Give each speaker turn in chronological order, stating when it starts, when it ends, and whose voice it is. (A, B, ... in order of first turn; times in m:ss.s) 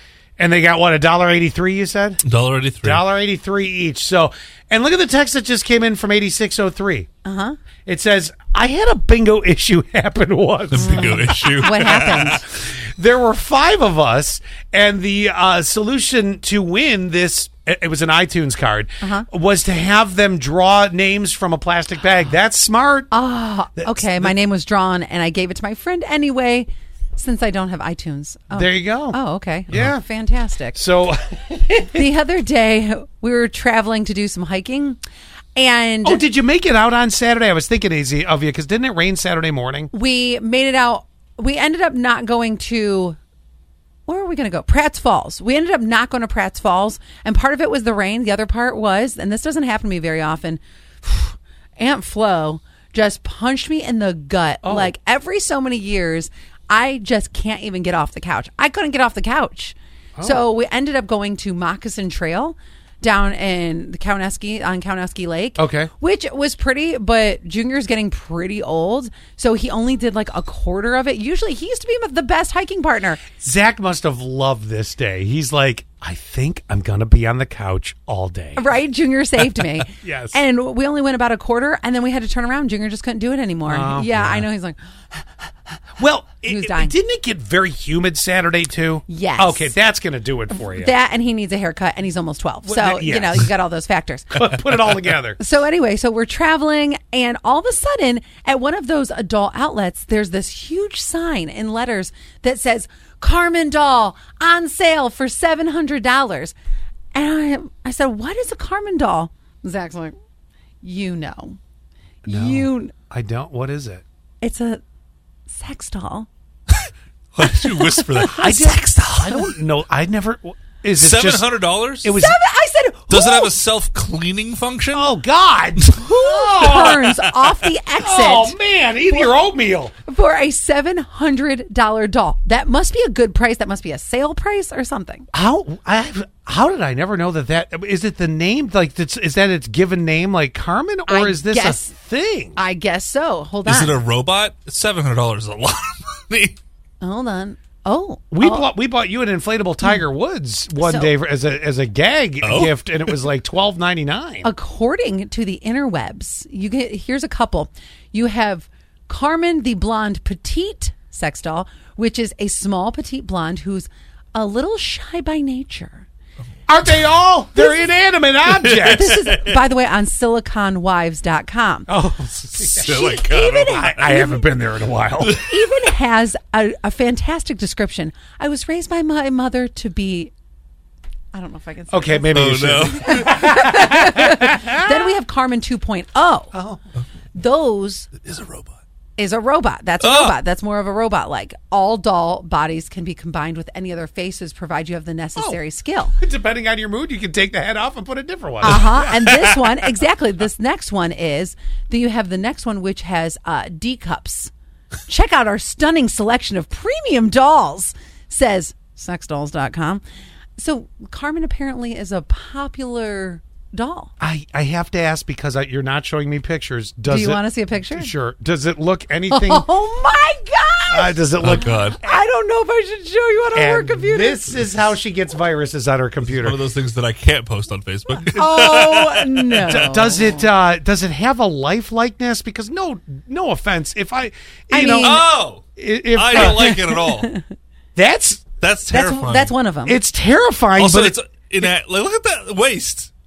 0:00.4-0:02.2 A
0:02.2-0:03.0 B
0:02.8-0:07.1 A
0:07.2-0:07.6 C
0:07.8-0:11.4 A
0:10.7-0:12.4 B
0:10.7-0:12.4 C
0:12.6-0:23.1 A
0:23.1-0:30.8 C
0:23.8-0:24.3 A
0:28.5-0:29.2 A
0:29.7-0:30.0 A
0:30.7-0:31.9 A
0:31.9-0:35.0 C
0:35.6-0:36.2 C
0:36.0-0:39.9 A
0:39.9-0:43.2 C
0:44.1-1:13.2 C
0:54.6-0:54.9 A
1:00.2-1:00.4 A
1:05.6-1:05.9 A
1:13.3-1:18.8 A
1:18.6-1:24.8 C
1:20.0-1:20.4 A
1:23.6-1:24.4 A
1:26.0-1:30.9 A
1:26.4-1:26.9 C
1:29.1-1:29.7 C
1:30.5-1:34.5 C
1:32.6-1:33.5 A
1:34.3-1:35.4 A
1:35.4-1:46.5 C
1:47.1-1:50.1 C
1:50.8-1:51.6 C
1:52.2-1:54.0 A
1:52.3-1:52.9 C
1:54.4-1:54.8 C
1:55.5-1:56.3 C
1:57.3-1:59.4 B
1:57.4-1:58.8 C
1:58.3-2:01.5 A
2:01.0-2:02.2 B
2:02.0-2:02.4 A
2:02.2-2:03.5 C
2:03.1-2:05.1 B
2:04.9-2:07.2 A
2:05.9-2:08.6 C
2:08.0-2:09.9 A
2:09.1-2:09.4 C
2:10.0-2:15.3 C
2:15.3-2:22.6 A
2:21.1-2:22.0 C
2:22.5-2:24.0 C
2:23.6-2:26.6 B
2:27.0-2:28.7 C
2:28.3-2:34.5 A
2:30.8-2:31.1 C
2:32.4-2:33.1 B
2:34.4-2:46.0 C
2:46.7-2:49.2 A
2:47.6-2:47.9 C
2:48.5-2:49.6 B
2:48.8-2:51.9 C
2:51.9-2:53.0 A
2:52.6-2:53.9 B
2:52.8-2:54.6 C
2:53.7-2:55.4 A
2:55.4-3:00.3 C
3:01.3-3:06.5 C
3:01.9-3:04.8 A
3:02.3-3:03.4 B
3:06.5-3:06.8 A
3:07.3-3:08.1 C
3:08.2-3:08.8 B
3:09.2-3:16.2 C
3:10.0-3:10.4 B
3:16.2-3:19.3 A
3:18.6-3:24.5 C
3:25.1-3:30.0 C
3:30.6-3:34.1 C
3:34.2-3:39.6 A
3:37.1-3:38.1 C
3:39.3-3:44.7 C
3:40.9-3:42.2 A
3:41.4-3:42.0 B
3:43.5-3:46.6 A
3:46.2-3:49.8 B
3:48.3-3:50.5 C
3:49.6-3:56.8 A
3:54.7-3:55.3 C
3:55.0-3:55.6 B
3:56.1-3:57.3 B
3:56.4-3:57.4 C
3:58.0-3:58.4 A
3:58.6-3:59.5 B
3:58.9-4:00.0 C
3:59.9-4:01.2 A
4:00.7-4:03.1 B